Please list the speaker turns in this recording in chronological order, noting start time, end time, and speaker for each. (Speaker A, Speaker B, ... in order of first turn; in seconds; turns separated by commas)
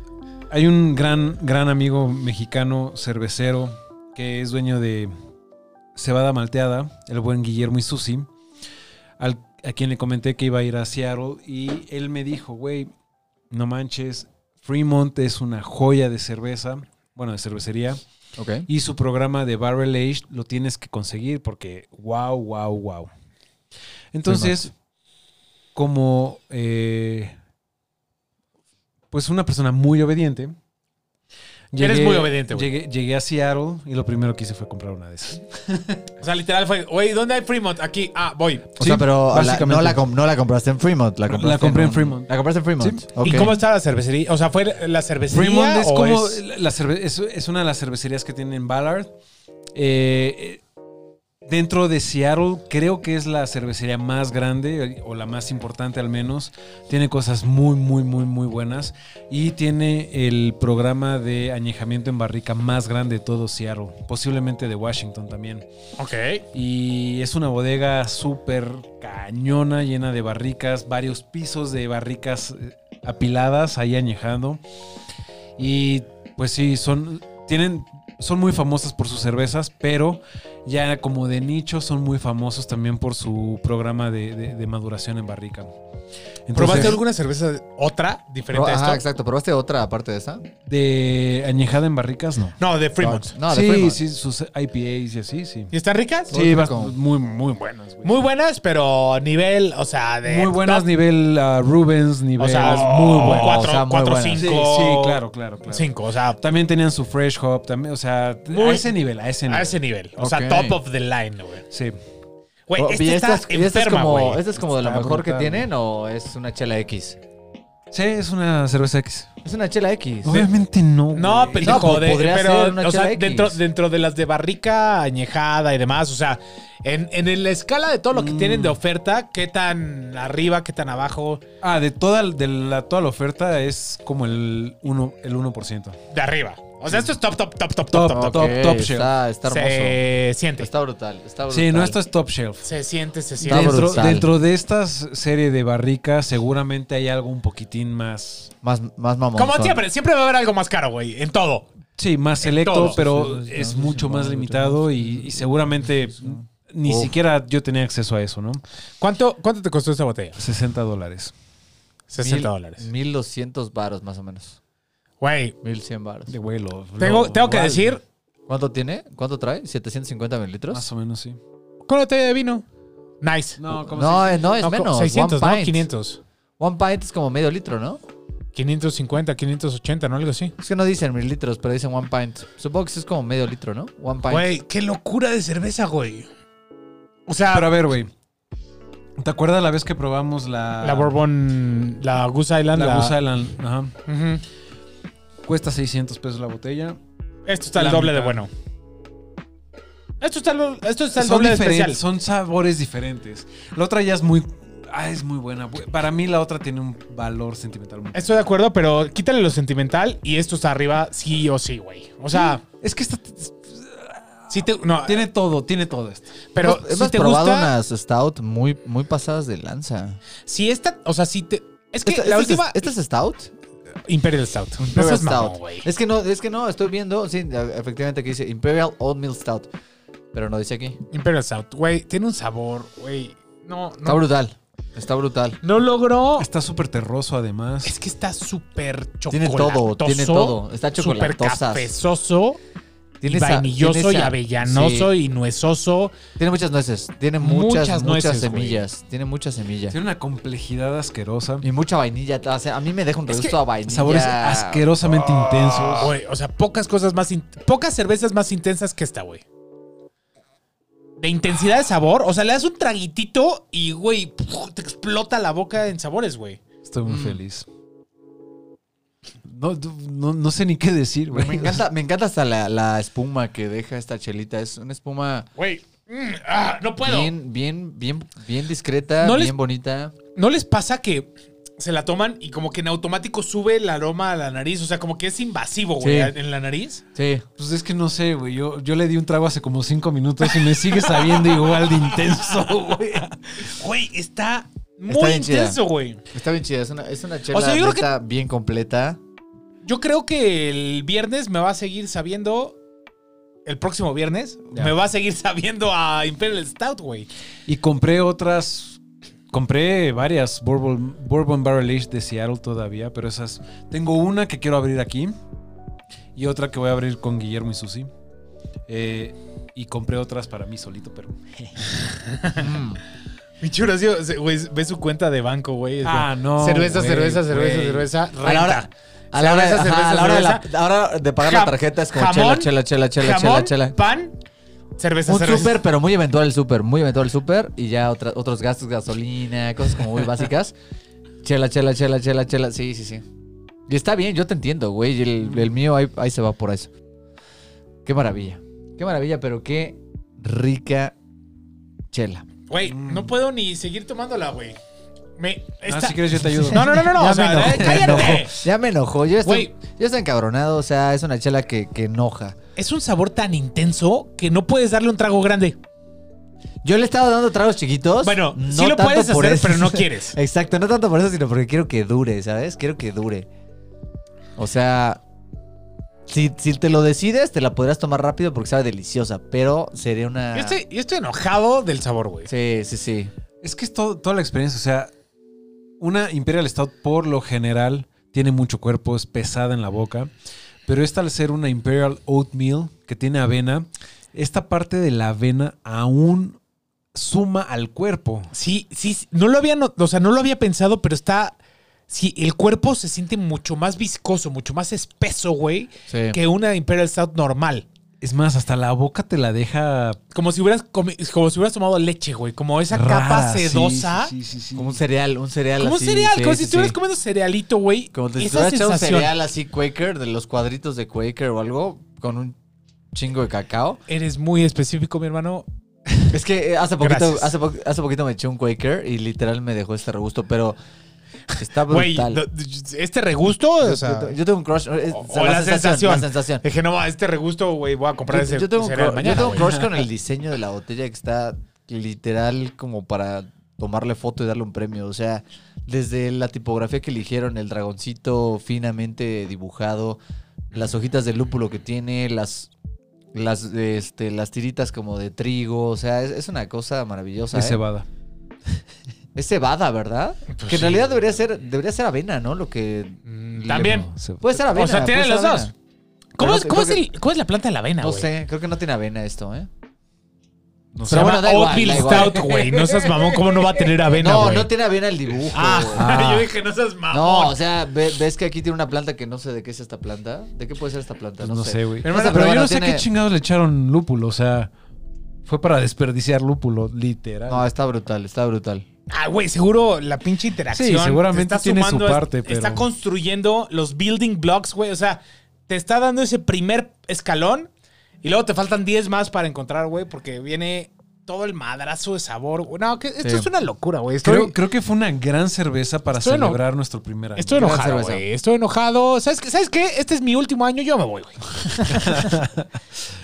Speaker A: 0.5-5.1, Speaker A: 5.9-8.3, Speaker A: 9.2-12.9, Speaker A: 13.5-18.0, Speaker B: 18.4-18.7, Speaker A: 18.7-23.1, Speaker A: 24.1-24.7, Speaker B: 24.3-24.7, Speaker A: 25.7-27.3, Speaker A: 29.1-30.6, Speaker A: 31.7-36.0, Speaker C: 31.8-32.7, Speaker C: 36.2-38.8, Speaker A: 38.8-40.0, Speaker B: 38.8-43.5, Speaker A: 41.3-43.5, Speaker C: 43.2-46.4, Speaker A: 45.3-49.1, Speaker A: 49.7-50.6, Speaker A: 51.4-65.7, Speaker C: 66.0-66.4, Speaker A: 66.5-74.6, Speaker A: 75.6-85.7, Speaker A: 86.5-87.0, Speaker C: 86.5-89.0, Speaker B: 86.6-87.0, Speaker B: 88.5-90.5, Speaker A: 90.7-92.6, Speaker C: 92.6-93.3, Speaker B: 93.0-94.0, Speaker A: 93.5-95.7, Speaker C: 95.7-96.3, Speaker B: 96.3-96.9, Speaker A: 96.3-98.2, Speaker C: 98.0-100.8, Speaker A: 100.2-103.6, Speaker C: 102.4-106.4, Speaker B: 102.7-104.5, Speaker A: 104.4-109.7, Speaker C: 108.5-108.9, Speaker C: 109.5-111.6, Speaker B: 110.2-110.8, Speaker A: 111.7-112.0, Speaker C: 112.7-114.5, Speaker B: 112.8-117.2, Speaker A: 114.6-115.7, Speaker A: 117.9-119.3, Speaker B: 119.4-120.5, Speaker A: 120.2-122.0, Speaker C: 121.1-131.4, Speaker B: 121.6-123.6, Speaker A: 128.1-128.8, Speaker A: 131.6-136.0, Speaker C: 136.1-138.6, Speaker A: 137.9-139.1, Speaker B: 138.1-140.0, Speaker C: 139.5-140.7, Speaker B: 140.6-142.0, Speaker A: 141.5-142.7, Speaker C: 142.6-144.0, Speaker B: 143.4-144.3, Speaker A: 143.4-148.5, Speaker B: 148.6-149.8, Speaker C: 149.3-151.7, Speaker A: 152.0-158.6, Speaker C: 152.4-153.0, Speaker B: 152.9-155.5, Speaker B: 156.1-157.1, Speaker C: 159.0-160.4, Speaker A: 160.4-161.3, Speaker C: 162.1-162.8, Speaker B: 162.2-164.6, Speaker C: 165.2-165.6, Speaker B: 165.6-166.3, Speaker A: 166.3-168.0, Speaker C: 167.0-168.0, Speaker B: 168.5-170.8, Speaker A: 170.7-171.4, Speaker C: 171.9-172.6, Speaker C: 173.2-173.6, Speaker A: 173.6-174.5, Speaker B: 173.9-175.9, Speaker C: 174.6-176.2, Speaker B: 176.6-178.0, Speaker C: 178.5-180.5, Speaker B: 180.6-184.5, Speaker C: 184.3-186.3, Speaker C: 187.3-187.7, Speaker A: 187.5-188.1, Speaker A: 189.2-191.1, Speaker C: 190.8-193.1, Speaker A: 192.7-193.9, Speaker C: 194.1-194.4, Speaker A: 195.4-197.0, Speaker C: 197.5-198.5, Speaker A: 197.8-198.4, Speaker C: 200.2-202.0, Speaker A: 201.2-208.4, Speaker C: 208.1-212.6, Speaker A: 212.3-214.5, Speaker C: 214.5-215.3, Speaker A: 215.0-216.4, Speaker C: 216.5-217.7, Speaker B: 216.6-220.2, Speaker C: 220.4-222.9, Speaker B: 222.0-223.5, Speaker C: 224.1-225.8, Speaker B: 224.8-229.7, Speaker B: 230.3-231.0, Speaker C: 231.1-234.2, Speaker B: 234.0-235.6, Speaker C: 235.6-236.5, Speaker A: 236.4-237.9, Speaker C: 237.8-242.6, Speaker B: 239.3-241.9, Speaker B: 243.2-245.1, Speaker C: 243.2-246.2, Speaker B: 246.4-249.9, Speaker C: 247.4-248.8, Speaker A: 249.9-251.6, Speaker B: 251.6-254.9, Speaker C: 253.3-253.5, Speaker A: 253.8-256.1, Speaker C: 256.0-259.4, Speaker C: 261.2-266.6, Speaker A: 266.8-267.6, Speaker B: 267.1-267.4, Speaker A: 269.4-271.8, Speaker B: 271.3-275.5, Speaker C: 275.6-277.3, Speaker B: 277.0-280.1, Speaker C: 279.2-279.5, Speaker C: 280.3-287.0, Speaker B: 286.0-286.3, Speaker B: 287.1-287.4, Speaker A: 287.6-293.7, Speaker C: 290.5-292.6, Speaker C: 293.6-296.2, Speaker B: 295.1-295.8, Speaker B: 296.3-299.2, Speaker C: 297.5-298.1, Speaker C: 299.8-302.8, Speaker C: 303.6-307.3, Speaker A: 307.7-309.0, Speaker A: 309.5-315.3, Speaker A: 316.4-318.1, Speaker A: 318.9-321.5, Speaker C: 321.8-322.7, Speaker B: 322.5-323.0, Speaker C: 323.6-330.6, Speaker A: 326.0-328.1, Speaker B: 328.4-333.9, Speaker C: 331.4-334.3, Speaker C: 335.0-335.8, Speaker B: 335.3-340.7, Speaker B: 341.4-343.2, Speaker B: 343.9-346.9, Speaker B: 348.0-351.1, Speaker B: 352.1-352.5, Speaker C: 352.7-354.8, Speaker A: 352.8-353.3, Speaker C: 355.4-358.6, Speaker A: 355.9-358.4, Speaker B: 356.6-362.6, Speaker C: 359.4-359.7, Speaker C: 362.8-365.8, Speaker B: 366.8-373.5, Speaker C: 368.2-370.4, Speaker B: 374.6-375.2, Speaker B: 376.3-380.8, Speaker C: 380.5-382.5, Speaker B: 382.5-383.3, Speaker A: 383.6-385.1, Speaker A: 386.0-390.3, Speaker A: 390.9-396.6, Speaker A: 397.1-398.5, Speaker C: 398.5-401.5, Speaker C: 402.1-407.8, Speaker B: 406.1-406.4, Speaker A: 408.2-410.2, Speaker C: 410.3-414.3, Speaker A: 412.9-415.0, Speaker B: 414.7-417.0, Speaker C: 415.8-419.3, Speaker B: 418.1-422.6, Speaker B: 423.1-424.0, Speaker C: 424.1-425.7, Speaker B: 426.3-430.8, Speaker C: 427.0-427.5, Speaker B: 431.6-432.4, Speaker C: 431.9-434.4, Speaker B: 433.8-436.6, Speaker C: 435.1-439.8, Speaker B: 438.3-450.2, Speaker A: 439.5-439.9, Speaker B: 450.7-452.7, Speaker B: 453.3-457.8, Speaker A: 457.5-458.1, Speaker B: 459.3-465.7, Speaker C: 460.5-461.0, Speaker C: 463.3-464.1, Speaker A: 464.1-464.6, Speaker C: 464.7-465.7, Speaker C: 466.4-468.3, Speaker B: 466.4-467.0, Speaker B: 468.0-469.7, Speaker A: 470.9-471.3, Speaker B: 471.0-473.1, Speaker C: 471.1-474.7, Speaker A: 471.9-472.4, Speaker B: 474.1-476.1, Speaker C: 475.5-477.6, Speaker A: 475.9-476.5, Speaker B: 477.1-483.1, Speaker A: 481.4-484.7, Speaker C: 482.0-482.4, Speaker A: 485.4-487.6, Speaker B: 487.5-488.8, Speaker C: 489.1-497.7, Speaker A: 490.7-492.9, Speaker C: 498.2-504.6, Speaker B: 503.2-503.5, Speaker A: 504.2-507.6, Speaker C: 506.1-506.6, Speaker C: 507.4-512.2, Speaker B: 507.5-508.2, Speaker A: 511.9-512.7